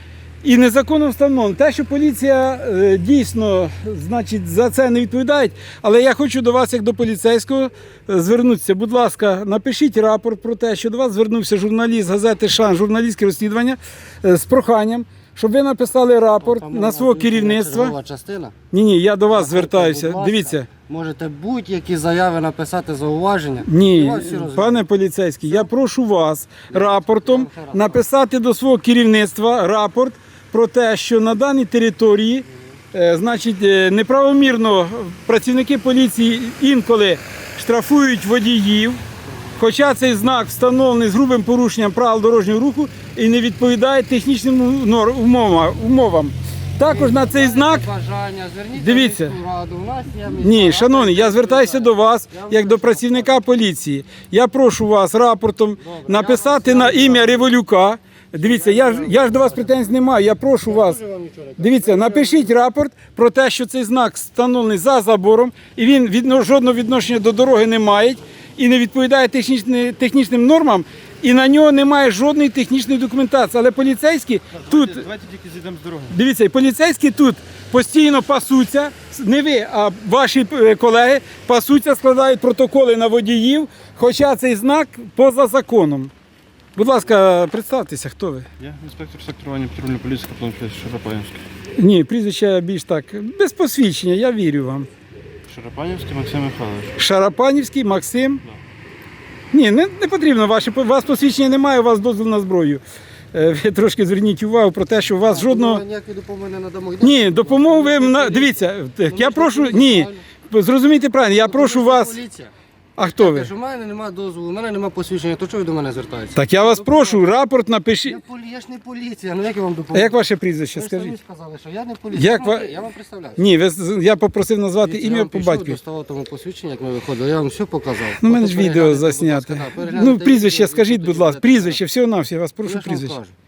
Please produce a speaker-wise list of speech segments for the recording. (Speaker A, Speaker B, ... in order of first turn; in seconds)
Speaker A: 0.4-17.9, 18.7-20.7, 23.6-39.0, 39.6-47.9, 48.7-49.4, 50.3-61.0, 61.6-75.1, 76.1-86.1, 86.8-88.5, 91.8-94.9, 97.0-98.4, 99.5-105.8, 107.0-112.2, 113.0-113.5, 116.3-118.2, 119.9-121.2, 122.1-122.7, 123.4-125.8, 128.2-133.2
Speaker B: 16.4-18.5, 19.3-24.8, 26.7-28.0, 46.8-53.4, 55.8-57.5, 58.4-59.9, 60.6-62.5, 105.3-110.2, 111.3-112.5, 113.2-117.2, 118.1-120.2, 120.8-123.4, 124.8-131.8, 132.7-133.3
Speaker C: 75.0-76.1, 88.6-91.4, 95.5-97.0